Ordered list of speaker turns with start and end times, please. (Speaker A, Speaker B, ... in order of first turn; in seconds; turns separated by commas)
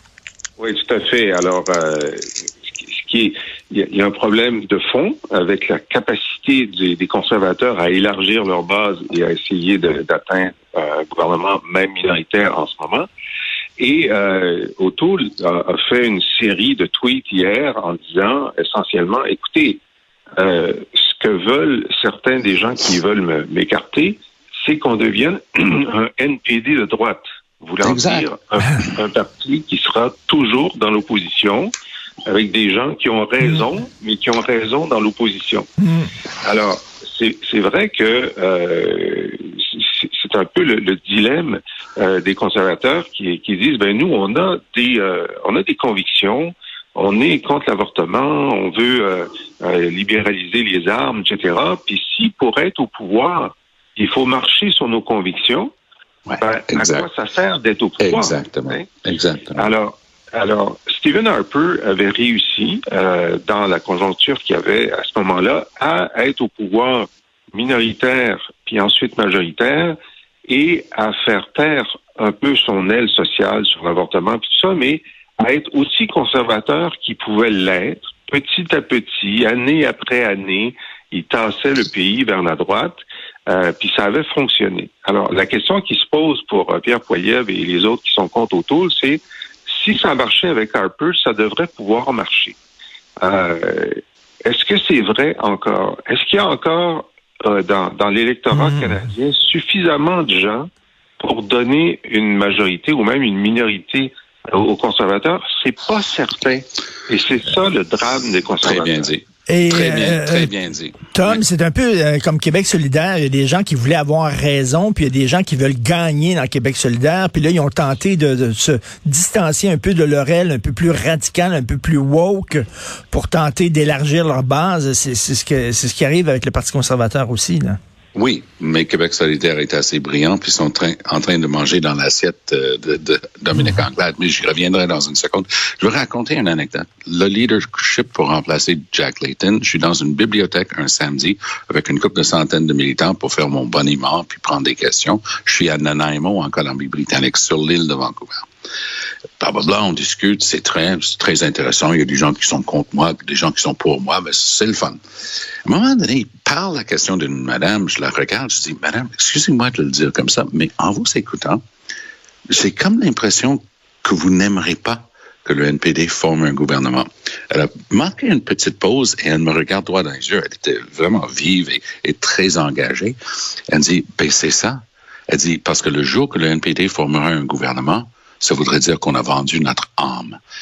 Speaker A: 0.6-2.3, Speaker A: 2.8-13.1, Speaker A: 13.8-19.8, Speaker A: 20.4-31.7, Speaker B: 27.8-28.2, Speaker A: 32.3-35.7, Speaker A: 36.4-55.7, Speaker B: 56.3-57.1, Speaker A: 56.4-59.0, Speaker B: 58.0-59.7, Speaker A: 59.5-70.0, Speaker A: 70.5-92.6, Speaker A: 93.2-109.1, Speaker C: 98.5-99.0, Speaker B: 108.6-111.4, Speaker C: 109.5-110.5, Speaker C: 111.0-127.8, Speaker B: 128.1-148.5, Speaker B: 149.4-155.0, Speaker B: 155.6-161.6, Speaker B: 162.5-173.2, Speaker B: 173.7-180.4